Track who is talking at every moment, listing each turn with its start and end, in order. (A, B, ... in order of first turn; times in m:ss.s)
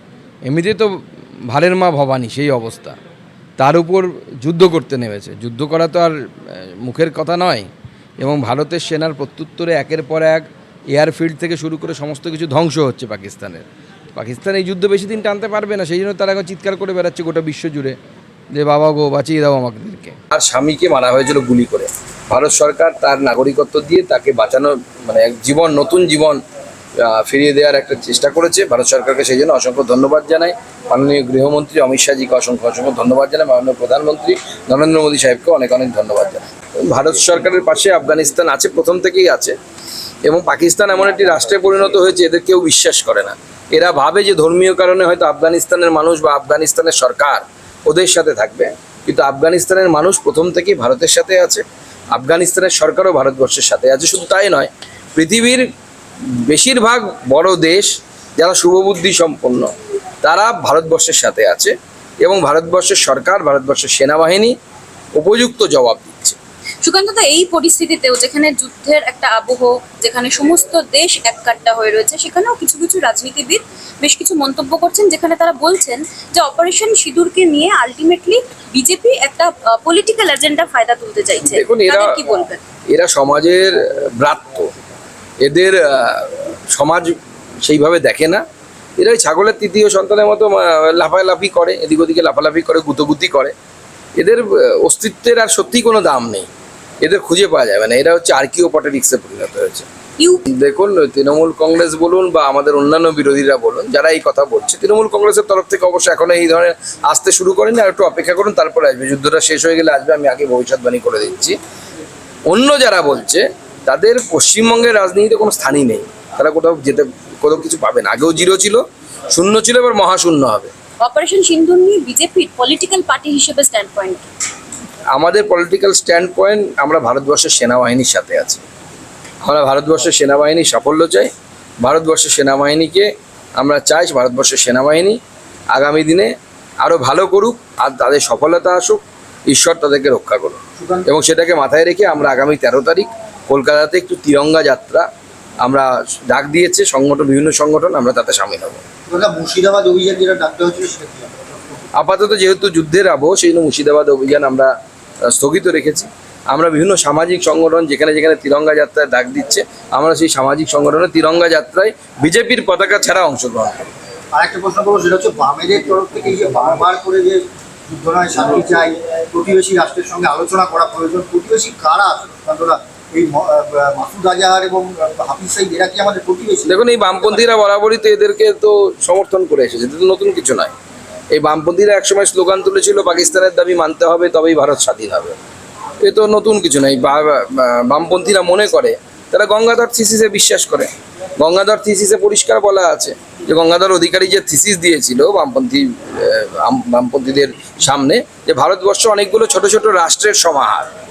0:00.4-0:03.0 A
0:03.6-0:07.7 A
0:08.2-0:18.0 A
0:18.5-0:26.4 A
0:27.0-0:39.6 A
0:40.2-0:55.7 A
0:56.3-1:04.6 A
1:05.2-1:06.4 A
1:06.8-1:22.6 B
1:21.4-1:22.2 A
1:22.9-1:24.7 A
1:25.4-1:28.4 A
1:29.0-1:33.5 A
1:34.2-1:36.5 A
1:37.0-1:39.9 A
1:40.2-1:40.4 B
1:40.5-1:51.6 A
1:52.5-2:00.7 A
2:01.0-2:04.3 B
2:05.1-2:08.6 A
2:09.4-2:13.1 A
2:13.6-2:15.2 A
2:15.7-2:16.3 A
2:16.8-2:25.1 A
2:20.8-2:21.1 C
2:25.6-2:28.8 A
2:29.1-2:31.6 C
2:32.0-2:34.7 A
2:35.2-2:43.9 A
2:44.3-2:57.3 C
2:56.7-3:00.7 A
3:01.3-3:05.4 A
3:06.0-3:20.9 A